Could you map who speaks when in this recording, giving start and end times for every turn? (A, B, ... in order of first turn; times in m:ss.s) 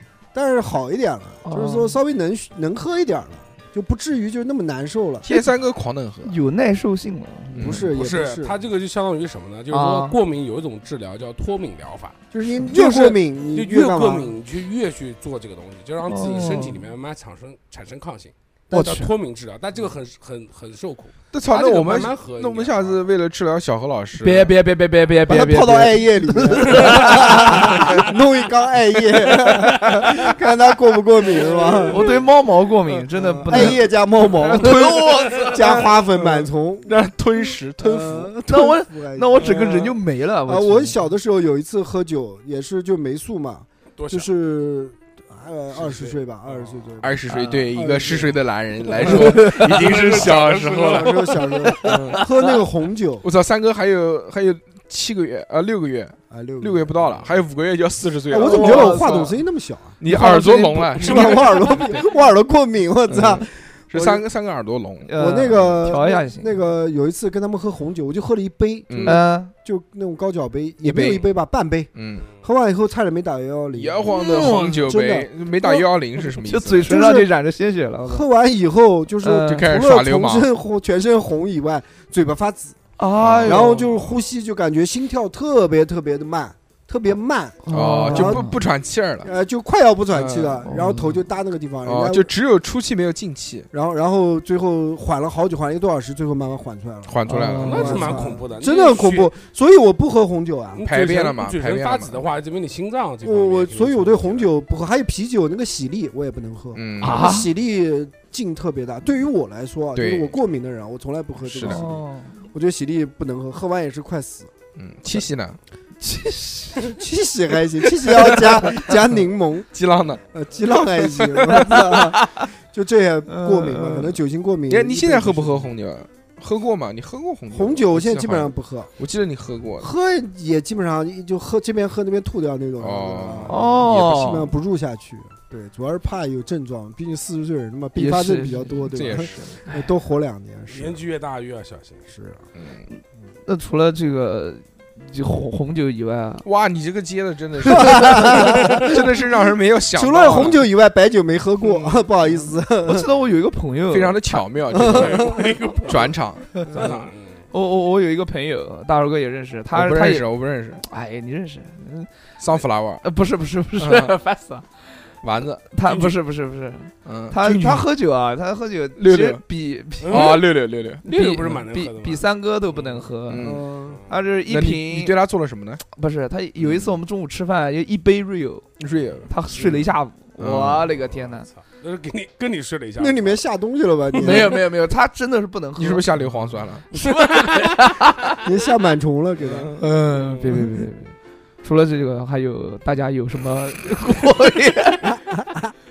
0:00.3-0:05.2 A
0:01.4-0:02.0 B
0:05.2-0:06.4 C
0:06.2-0:07.9 B
0:07.5-0:07.9 C
0:07.5-0:08.5 A
0:07.9-0:23.0 D
0:09.7-0:10.2 B
0:12.3-0:14.3 A
0:16.0-0:16.8 B
0:18.7-0:19.1 B
0:21.3-0:24.5 C
0:24.2-0:28.0 B
0:25.3-0:32.0 A
0:31.2-0:32.2 D
0:31.9-0:35.9 B
0:32.9-0:33.8 C
0:33.4-0:37.0 A
0:34.4-0:38.3 C
0:37.8-0:48.4 A
0:38.5-0:41.0 B
0:39.4-0:39.9 C
0:44.0-0:44.3 D
0:45.7-0:46.9 D
0:47.0-0:52.2 C
0:48.9-0:49.8 A
0:49.0-0:50.1 B
0:49.0-0:51.6 D
0:50.8-0:53.2 A
0:51.6-0:52.2 B
0:53.2-0:59.1 C
0:56.3-0:57.0 A
0:58.2-1:04.2 A
0:58.3-0:59.4 B
1:00.0-1:02.0 C
1:00.0-1:01.0 B
1:01.0-1:02.1 D
1:03.1-1:05.7 C
1:05.0-1:06.5 B
1:05.2-1:15.9 A
1:08.9-1:09.2 C
1:09.0-1:09.5 B
1:10.8-1:11.3 C
1:11.9-1:12.3 C
1:13.7-1:17.0 C
1:14.1-1:14.8 B
1:16.4-1:18.2 B
1:16.9-1:17.3 A
1:18.0-1:22.8 A
1:19.2-1:19.7 B
1:19.4-1:20.5 C
1:23.0-1:23.9 B
1:23.2-1:24.2 C
1:23.4-1:28.5 A
1:27.6-1:28.6 B
1:27.7-1:29.3 C
1:29.2-1:32.3 A
1:30.1-1:30.7 C
1:30.6-1:31.2 B
1:31.8-1:33.7 C
1:33.7-1:40.8 A
1:37.0-1:38.2 C
1:37.3-1:38.1 B
1:37.6-1:39.3 D
1:40.7-1:44.5 D
1:40.8-1:42.2 C
1:43.2-1:52.0 A
1:46.7-1:47.4 C
1:47.0-1:47.5 B
1:49.9-1:50.4 C
1:51.4-1:51.8 C
1:51.6-1:52.4 B
1:52.5-1:54.5 A
1:54.8-1:55.6 C
1:56.0-1:56.9 B
1:56.8-1:59.7 A
1:58.0-2:02.1 C
2:00.3-2:05.7 A
2:01.5-2:02.5 B
2:03.3-2:04.2 B
2:04.7-2:09.9 C
2:07.5-2:08.9 A
2:09.8-2:21.0 A
2:12.8-2:14.0 C
2:13.5-2:14.5 B
2:18.0-2:18.9 B
2:18.9-2:19.6 C
2:20.7-2:22.1 D
2:22.1-2:22.4 A
2:22.5-2:22.9 C
2:23.4-2:26.4 B
2:26.4-2:30.7 C
2:27.7-2:29.0 A
2:29.9-2:33.1 A
2:31.6-2:32.0 D
2:32.8-2:34.5 B
2:33.9-2:37.1 C
2:34.7-2:35.5 A
2:34.8-2:37.4 D
2:37.5-2:40.2 B
2:39.7-2:40.8 C
2:40.8-2:42.1 B
2:42.4-2:43.0 C
2:43.0-2:44.8 B
2:43.8-2:44.1 C
2:45.2-2:46.1 C
2:45.7-2:50.5 B
2:47.0-2:47.9 C
2:49.0-2:49.4 C
2:50.0-2:50.5 D
2:50.1-2:51.0 C
2:51.0-2:53.5 B
2:51.0-2:53.1 D
2:53.3-2:53.7 C
2:53.4-2:54.0 A
2:54.1-2:55.1 B
2:54.5-2:55.8 C
2:55.9-2:58.6 B
2:56.6-2:57.0 C
2:58.8-2:59.3 C
2:59.3-3:01.5 B
3:00.4-3:00.9 C
3:01.1-3:03.4 D
3:03.0-3:04.6 A
3:04.1-3:06.1 B
3:05.8-3:06.8 C
3:06.9-3:08.4 B
3:06.9-3:07.8 D
3:08.4-3:09.7 A
3:09.4-3:09.9 C
3:09.8-3:15.2 B
3:15.1-3:15.7 A